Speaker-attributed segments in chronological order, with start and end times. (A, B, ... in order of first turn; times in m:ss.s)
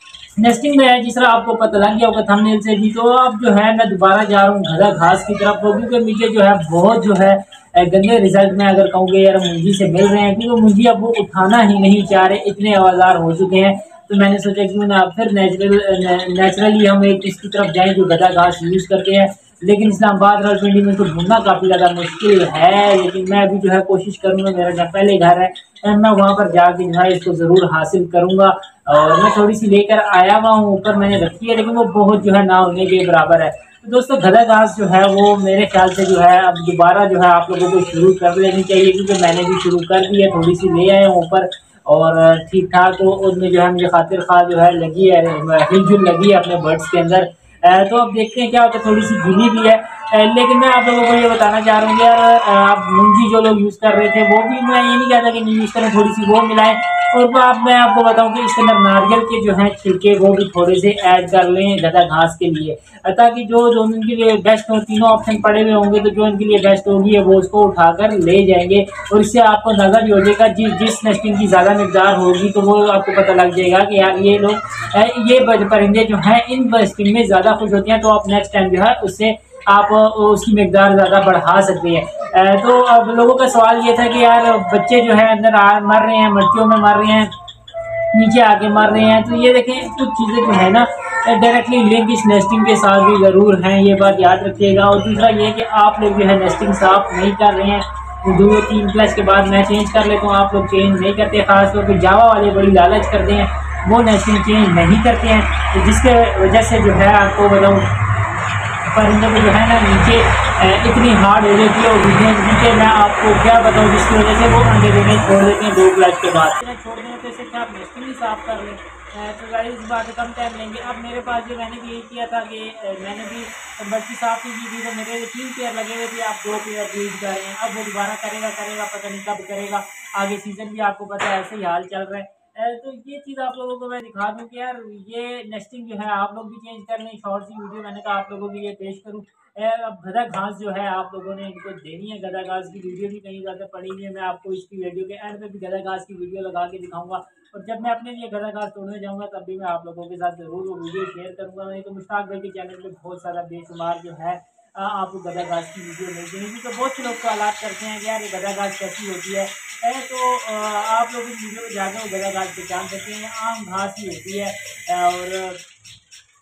0:00.3-1:27.3 A
1:28.1-1:47.9 A
1:48.9-2:45.6 A